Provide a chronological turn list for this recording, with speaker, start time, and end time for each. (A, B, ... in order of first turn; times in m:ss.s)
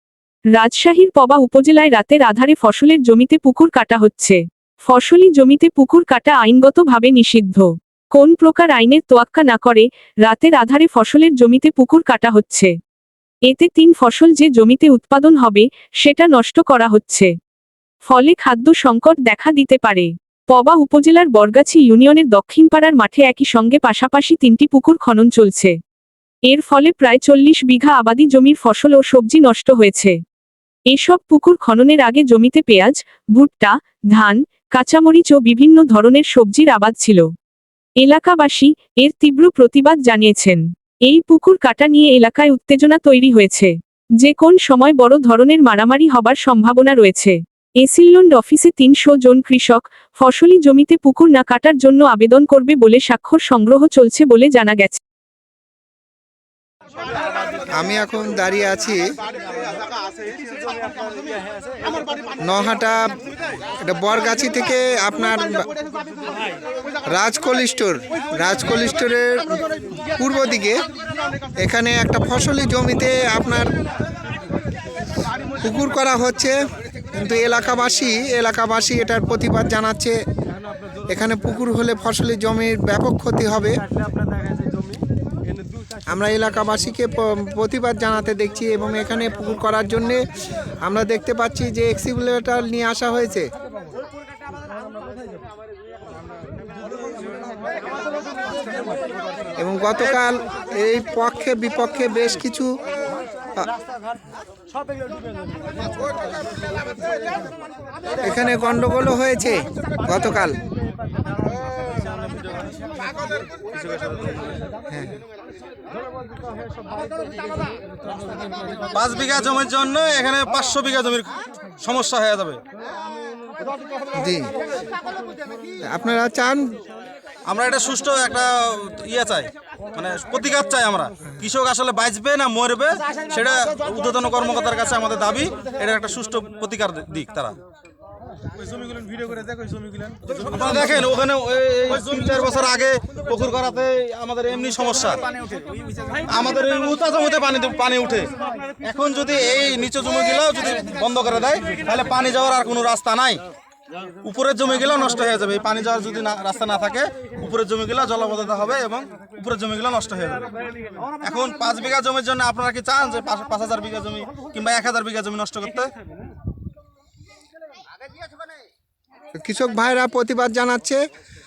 0:00.6-0:12.7 A
0:13.5-0:17.3 A
0:18.0-0:25.8 A
0:26.5-0:30.2 A
0:30.9-0:37.2 A
0:38.0-0:55.0 A
0:57.8-0:59.0 B
1:02.4-1:03.0 B
1:03.8-1:05.7 B
1:07.1-1:09.6 B
1:10.2-1:10.8 B
1:11.6-1:13.7 B
1:15.6-1:16.6 B
1:17.1-1:20.2 B
1:21.1-1:23.8 B
1:26.1-1:30.2 B
1:30.8-1:33.5 B
1:39.6-1:42.7 B
1:48.2-1:50.6 B
1:53.7-1:54.6 C
1:54.9-1:55.2 B
1:58.9-2:02.6 C
2:04.1-2:04.5 B
2:05.9-2:06.7 B
2:07.4-2:17.6 C
2:20.3-2:25.2 C
2:26.2-2:33.4 C
2:34.2-2:40.5 C
2:41.2-2:45.9 C
2:49.4-2:51.0 B